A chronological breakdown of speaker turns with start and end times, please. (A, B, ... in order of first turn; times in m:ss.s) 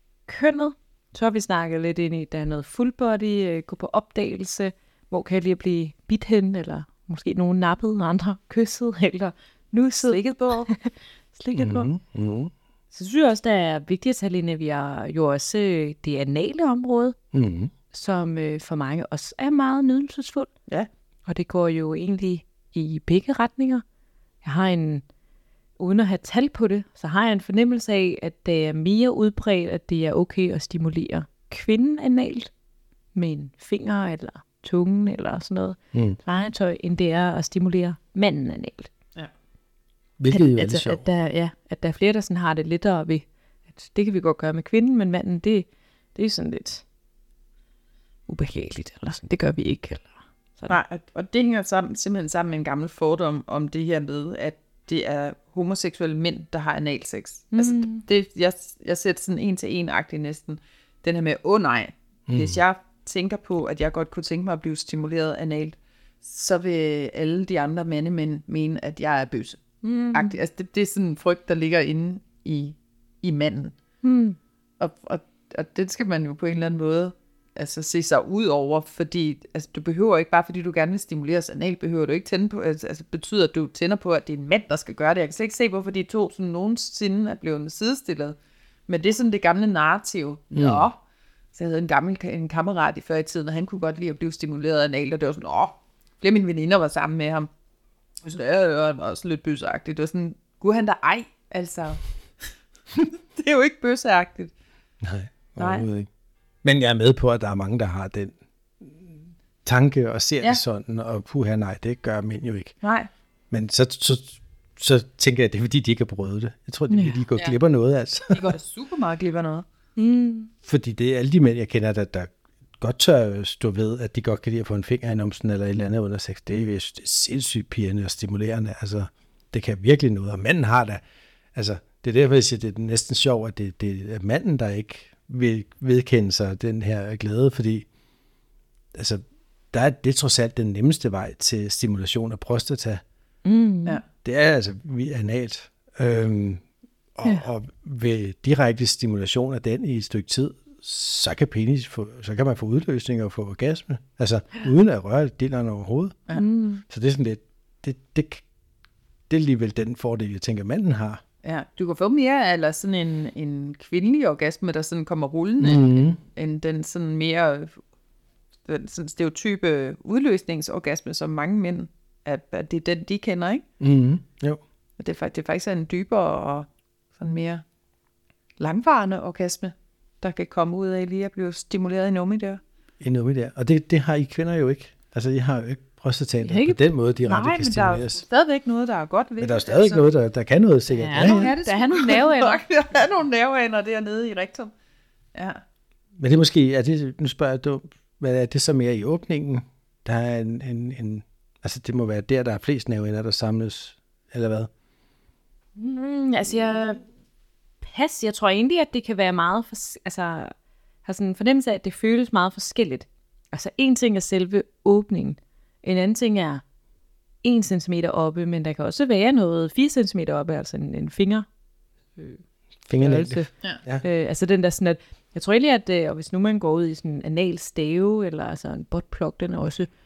0:00.3-0:11.9 A
0:10.0-0:10.7 B
0:11.6-0:12.5 C
0:12.9-0:17.2 A
0:17.3-0:17.7 C
0:17.9-0:20.5 A
0:21.3-0:23.8 A
0:24.4-0:25.0 A
0:25.8-0:32.5 A
0:33.2-0:38.9 A
0:35.9-0:36.2 C
0:40.2-0:41.0 C
0:40.3-0:46.8 A
0:48.3-0:50.8 A
0:50.7-1:13.8 B
0:57.5-0:58.0 A
1:02.3-1:02.6 C
1:09.8-1:10.4 A
1:14.0-1:14.4 A
1:14.8-1:28.4 B
1:28.9-1:31.0 B
1:30.5-1:30.9 C
1:31.5-1:37.5 B
1:38.2-1:42.0 B
1:43.0-1:44.5 B
1:45.0-1:46.1 C
1:45.6-1:45.9 B
1:46.6-1:52.8 C
1:52.8-1:53.1 B
1:53.5-1:58.5 C
1:56.9-1:57.2 A
1:58.3-1:59.6 B
2:00.0-2:00.5 A
2:00.6-2:11.0 C
2:11.6-2:17.9 C
2:18.9-2:23.0 C
2:23.4-2:24.0 A
2:24.2-2:26.6 C
2:27.2-2:36.2 C
2:36.3-2:36.8 A
2:36.8-2:38.4 C
2:39.3-2:41.2 C
2:41.4-2:47.8 B
2:45.6-2:46.2 C
2:48.7-2:53.6 B
2:53.8-2:54.6 C
2:55.0-2:57.6 B
2:58.6-3:02.6 B
3:03.0-3:08.2 C
3:06.4-3:06.8 A
3:07.2-3:10.1 B
3:09.4-3:11.5 C
3:11.0-3:12.6 A
3:11.1-3:14.7 B
3:15.4-3:15.6 B
3:16.2-3:24.7 C
3:25.8-3:27.0 A
3:27.8-3:30.5 A
3:31.0-3:36.6 A
3:37.4-3:41.5 A
3:42.2-3:42.4 A
3:42.9-3:44.0 C
3:43.0-3:49.9 A